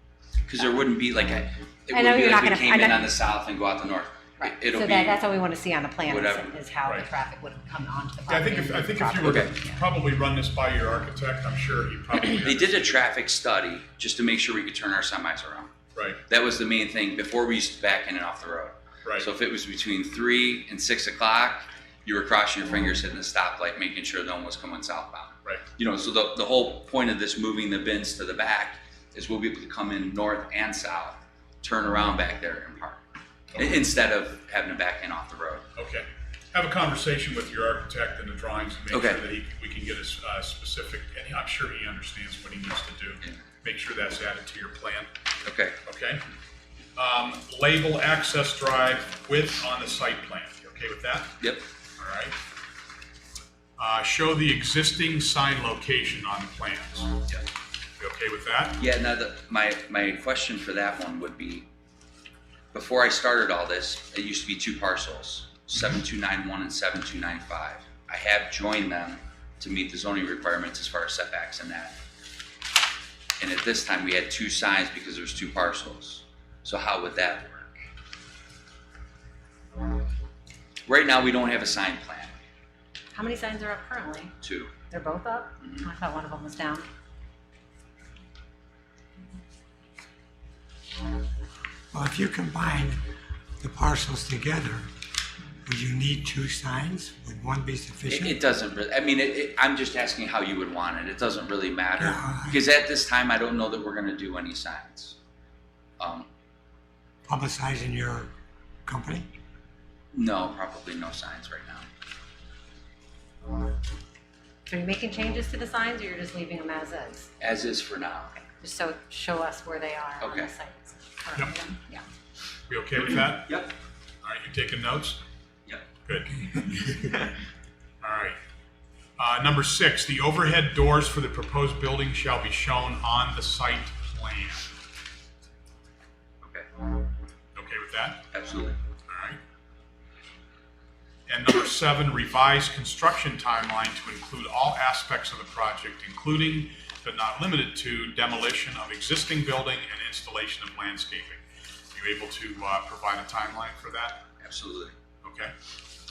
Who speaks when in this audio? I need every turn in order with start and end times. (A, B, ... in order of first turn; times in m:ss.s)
0:00.5-0:05.2 A
0:01.9-0:03.1 B
0:04.4-0:09.8 B
0:06.0-0:06.6 A
0:08.3-0:13.0 C
0:09.2-0:09.5 A
0:12.2-0:15.7 A
0:15.9-0:16.2 C
0:16.3-0:33.0 A
0:33.5-0:33.8 C
0:33.6-0:35.6 A
0:35.8-0:45.1 C
0:38.9-0:39.2 A
0:45.4-0:45.7 A
0:45.8-0:46.2 C
0:47.0-0:51.4 C
0:52.0-0:52.4 C
0:53.8-0:57.2 C
0:58.0-0:58.8 C
0:58.8-1:01.7 A
1:02.7-1:12.0 A
1:13.4-1:17.8 A
1:20.8-1:22.3 A
1:23.1-1:24.3 B
1:24.4-1:24.7 A
1:24.9-1:26.8 B
1:25.6-1:25.8 A
1:31.9-1:34.9 D
1:35.6-1:38.3 D
1:38.1-1:45.2 A
1:42.0-1:42.6 D
1:46.0-1:46.3 A
1:47.3-1:48.3 D
1:48.8-1:49.3 D
1:50.1-1:51.9 A
1:54.6-1:57.3 B
1:57.4-1:58.3 A
1:58.3-2:02.0 B
2:00.2-2:00.5 A
2:02.7-2:03.6 C
2:03.5-2:03.7 A
2:04.2-2:05.2 C
2:06.0-2:06.4 C
2:07.0-2:07.3 A
2:08.0-2:08.4 C
2:09.2-2:14.7 C
2:16.4-2:16.9 A
2:17.5-2:18.3 C
2:18.3-2:18.8 A
2:19.1-2:19.4 C
2:21.3-2:31.4 C
2:31.9-2:34.2 C
2:34.4-2:34.9 A
2:35.2-2:35.5 C